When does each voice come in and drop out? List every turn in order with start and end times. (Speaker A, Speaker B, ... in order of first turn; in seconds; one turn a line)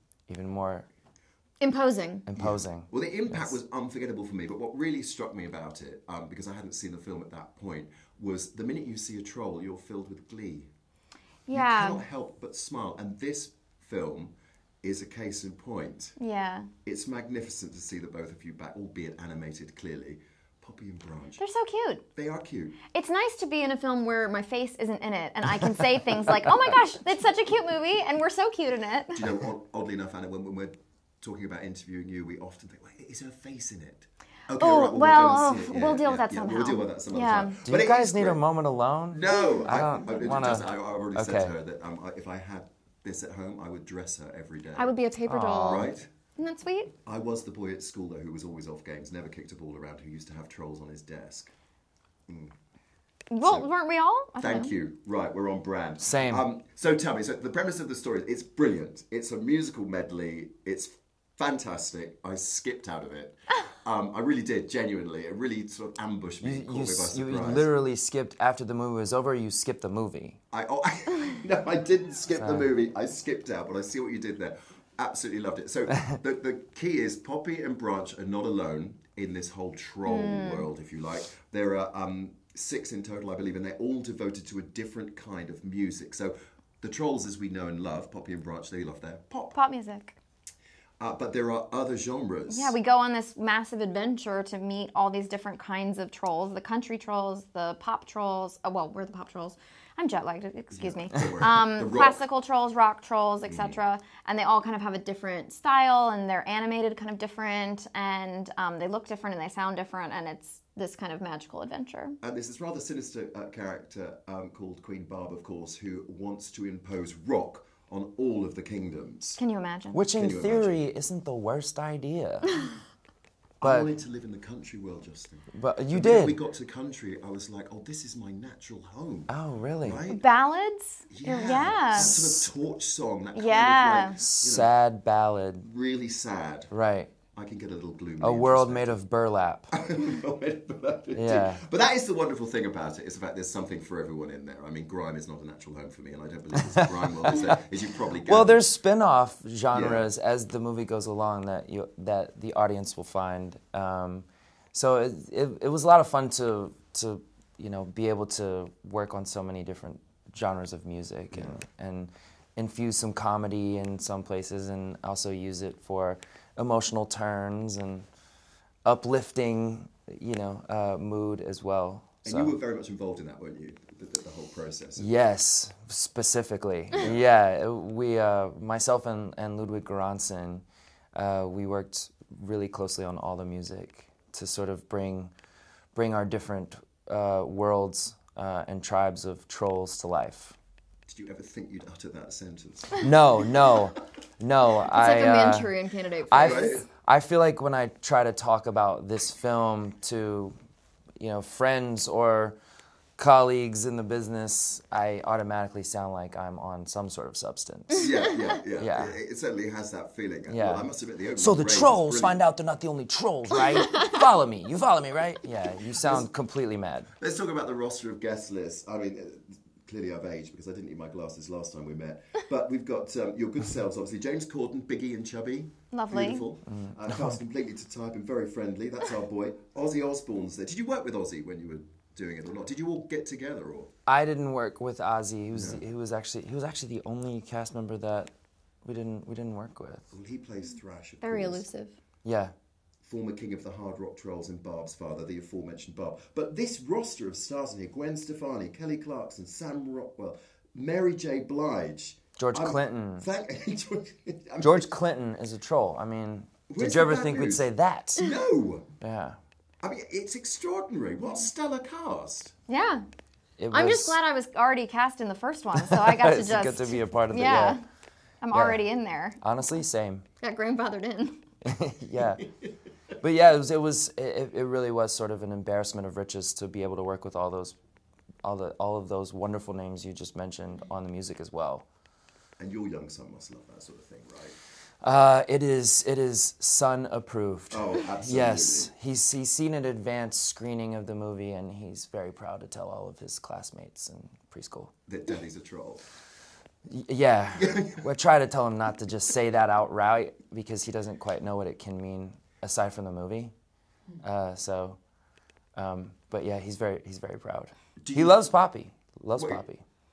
Speaker A: 0.3-0.9
Speaker B: 1.6-2.3
Speaker A: 2.3-3.6
Speaker C: 2.4-10.7
Speaker B: 11.5-12.0
Speaker C: 11.5-16.2
Speaker B: 16.2-16.7
Speaker C: 16.9-21.4
Speaker B: 21.4-22.0
Speaker C: 22.1-22.8
Speaker B: 22.9-29.3
Speaker C: 29.1-38.4
Speaker B: 34.6-37.6
Speaker A: 37.6-41.5
Speaker C: 39.1-45.0
Speaker B: 39.3-40.3
Speaker B: 44.8-46.9
Speaker A: 45.3-45.9
Speaker C: 45.6-46.1
Speaker C: 47.0-51.5
Speaker C: 52.3-52.5
Speaker B: 53.3-54.7
Speaker C: 53.4-53.7
Speaker C: 54.4-67.7
Speaker A: 56.0-56.5
Speaker A: 66.4-70.4
Speaker C: 70.5-89.5
Speaker A: 72.4-72.7
Speaker B: 80.0-80.7
Speaker B: 89.5-90.2
Speaker C: 91.0-92.8
Speaker B: 92.5-112.2
Speaker C: 100.7-102.2
Speaker C: 103.5-103.8
Speaker C: 112.2-119.4
Speaker B: 119.4-120.0
Speaker A: 119.9-122.7
Speaker C: 120.2-120.8
Speaker C: 123.6-130.2
Speaker A: 123.6-123.9
Speaker A: 125.5-126.4
Speaker A: 129.3-130.0
Speaker B: 130.1-132.2
Speaker C: 131.1-134.7
Speaker A: 131.9-132.5
Speaker B: 133.3-134.2
Speaker A: 134.2-135.7
Speaker C: 135.6-136.7
Speaker A: 136.7-137.1
Speaker C: 137.3-139.0
Speaker A: 138.2-139.7
Speaker C: 139.7-148.6
Speaker A: 141.2-141.6
Speaker A: 146.8-147.4
Speaker A: 148.2-168.1
Speaker C: 149.7-150.1
Speaker C: 161.3-161.6
Speaker A: 168.8-172.6
Speaker C: 172.2-175.1
Speaker A: 175.0-185.3
Speaker A: 185.9-190.6
Speaker C: 191.1-193.1
Speaker A: 193.0-195.7
Speaker B: 194.9-196.9
Speaker A: 196.3-200.6
Speaker C: 196.4-196.8
Speaker A: 201.2-202.6
Speaker A: 203.2-208.1
Speaker C: 208.0-212.4
Speaker A: 208.8-209.2
Speaker A: 210.5-217.1
Speaker C: 216.0-216.3
Speaker C: 217.2-233.9
Speaker B: 225.9-226.5
Speaker A: 226.7-227.4
Speaker A: 234.1-238.3
Speaker C: 235.5-235.8
Speaker A: 238.8-240.1
Speaker C: 240.1-241.7
Speaker B: 241.2-242.0
Speaker A: 242.2-242.5
Speaker C: 243.0-254.9
Speaker A: 252.4-253.3
Speaker A: 254.6-258.3
Speaker C: 256.7-258.9
Speaker A: 259.0-259.4
Speaker C: 259.8-262.5
Speaker B: 262.7-263.1
Speaker A: 263.6-264.2
Speaker B: 263.7-267.8
Speaker A: 265.9-267.8
Speaker B: 268.4-269.4
Speaker A: 268.5-268.8
Speaker A: 269.4-270.2
Speaker B: 270.4-271.4
Speaker A: 271.6-272.4
Speaker C: 272.2-272.7
Speaker A: 273.2-277.8
Speaker A: 278.4-281.9
Speaker C: 282.6-284.6
Speaker A: 285.0-294.9
Speaker C: 287.7-288.9
Speaker C: 295.1-296.0
Speaker A: 296.9-303.5
Speaker C: 297.6-298.0
Speaker A: 304.2-305.0
Speaker A: 305.8-309.8
Speaker C: 308.0-308.4
Speaker C: 309.4-309.6